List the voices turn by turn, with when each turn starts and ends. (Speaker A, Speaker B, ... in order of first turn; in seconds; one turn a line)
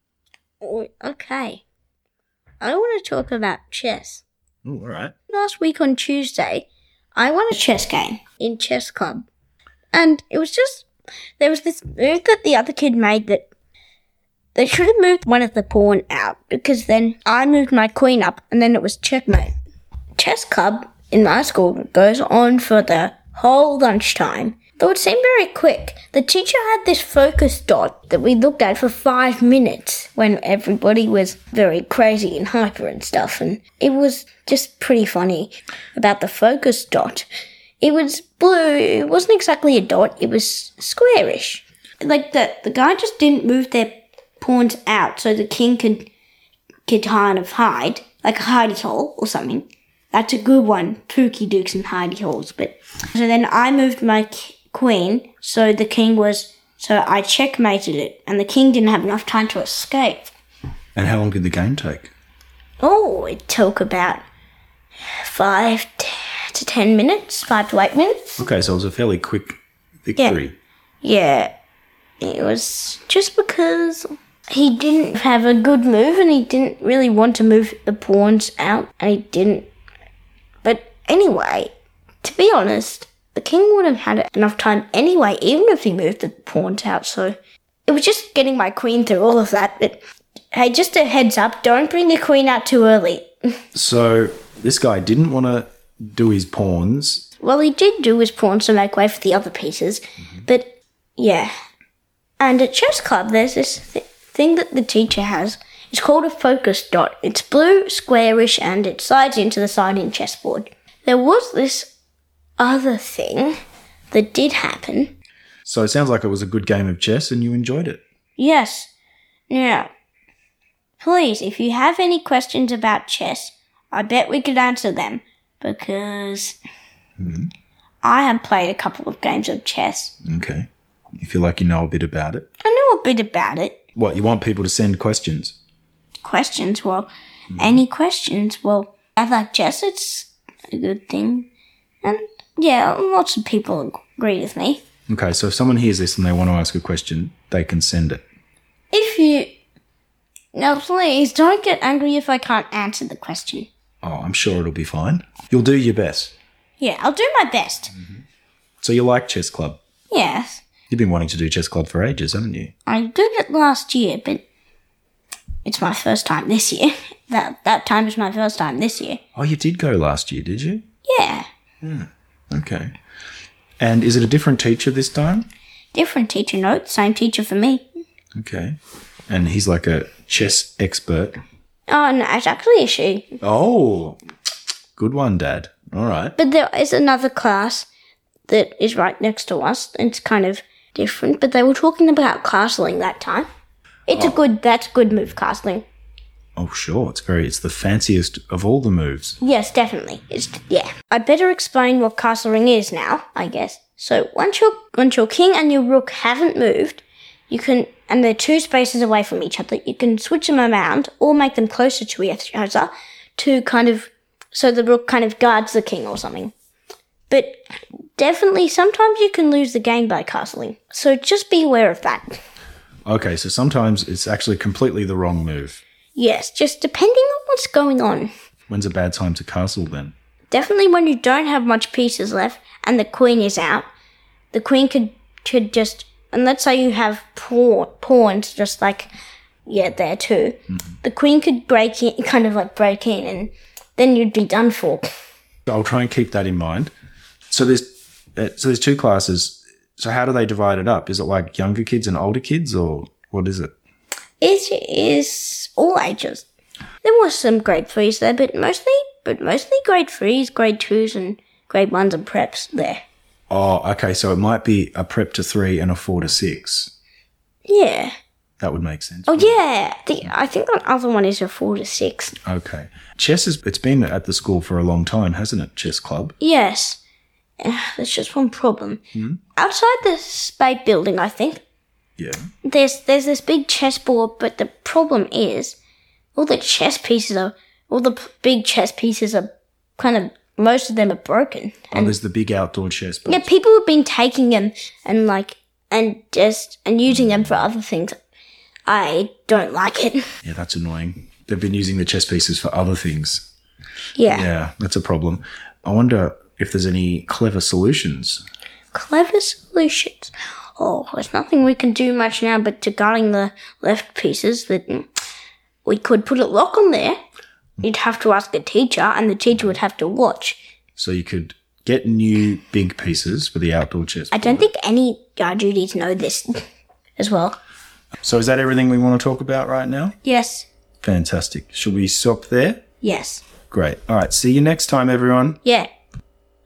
Speaker A: 0.6-1.6
Speaker A: 2.6-4.2
Speaker B: 4.7-5.2
Speaker A: 5.3-9.3
Speaker A: 9.9-10.9
Speaker A: 11.4-13.5
Speaker A: 14.6-19.6
Speaker A: 20.2-37.3
Speaker A: 37.8-46.1
Speaker A: 46.9-60.3
Speaker B: 61.0-62.1
Speaker A: 62.8-64.2
Speaker A: 65.2-68.4
Speaker B: 68.4-70.6
Speaker A: 71.0-71.5
Speaker A: 72.2-79.7
Speaker A: 80.6-81.7
Speaker A: 82.2-90.0
Speaker A: 90.5-93.3
Speaker B: 93.7-97.2
Speaker A: 97.4-101.5
Speaker A: 102.4-111.9
Speaker A: 112.6-113.5
Speaker A: 114.1-115.1
Speaker B: 115.7-118.0
Speaker A: 118.4-118.9
Speaker A: 119.5-119.9
Speaker A: 121.0-126.6
Speaker B: 127.2-127.5
Speaker A: 128.0-130.2
Speaker B: 130.2-132.5
Speaker A: 132.6-133.8
Speaker B: 133.9-135.6
Speaker A: 136.2-141.5
Speaker B: 137.5-137.8
Speaker A: 142.0-144.8
Speaker B: 145.1-148.2
Speaker A: 148.9-149.5
Speaker A: 150.5-153.7
Speaker B: 154.0-156.3
Speaker A: 156.8-157.9
Speaker B: 158.8-159.8
Speaker A: 160.1-160.7
Speaker B: 160.9-162.7
Speaker A: 162.9-164.4
Speaker A: 165.7-169.2
Speaker B: 169.3-170.8
Speaker A: 171.1-171.5
Speaker B: 171.8-172.9
Speaker B: 173.8-175.5
Speaker A: 175.9-177.9
Speaker B: 178.3-178.8
Speaker B: 179.3-181.4
Speaker A: 181.9-183.4
Speaker B: 183.4-184.2
Speaker B: 185.0-186.3
Speaker A: 186.4-187.9
Speaker A: 188.5-193.5
Speaker A: 194.1-195.8
Speaker B: 196.6-199.4
Speaker A: 199.4-216.5
Speaker A: 217.3-217.6
Speaker A: 218.2-222.4
Speaker B: 223.1-225.8
Speaker A: 226.2-228.3
Speaker B: 228.7-230.1
Speaker A: 230.5-233.9
Speaker A: 234.5-239.1
Speaker A: 239.7-245.1
Speaker B: 245.7-246.9
Speaker B: 247.5-253.7
Speaker A: 254.4-256.4
Speaker A: 257.0-263.0
Speaker B: 263.5-266.9
Speaker A: 267.7-268.1
Speaker B: 268.6-269.6
Speaker A: 269.3-272.3
Speaker B: 272.4-276.4
Speaker A: 276.4-277.0
Speaker A: 277.6-279.0
Speaker B: 279.1-279.4
Speaker A: 279.6-281.6
Speaker B: 282.2-282.5
Speaker A: 282.6-285.8
Speaker A: 286.4-292.2
Speaker B: 291.9-293.5
Speaker A: 293.3-298.2
Speaker B: 297.2-297.5
Speaker A: 298.9-300.3
Speaker B: 300.4-303.5
Speaker A: 304.2-304.5
Speaker B: 304.3-308.4
Speaker A: 308.9-315.1
Speaker A: 315.9-317.2
Speaker A: 317.8-320.6
Speaker B: 321.0-324.7
Speaker A: 324.3-326.6
Speaker A: 327.2-327.6
Speaker B: 328.2-330.2
Speaker A: 330.2-330.7
Speaker B: 331.0-332.8
Speaker A: 333.0-333.4
Speaker B: 333.7-335.6
Speaker A: 335.6-335.9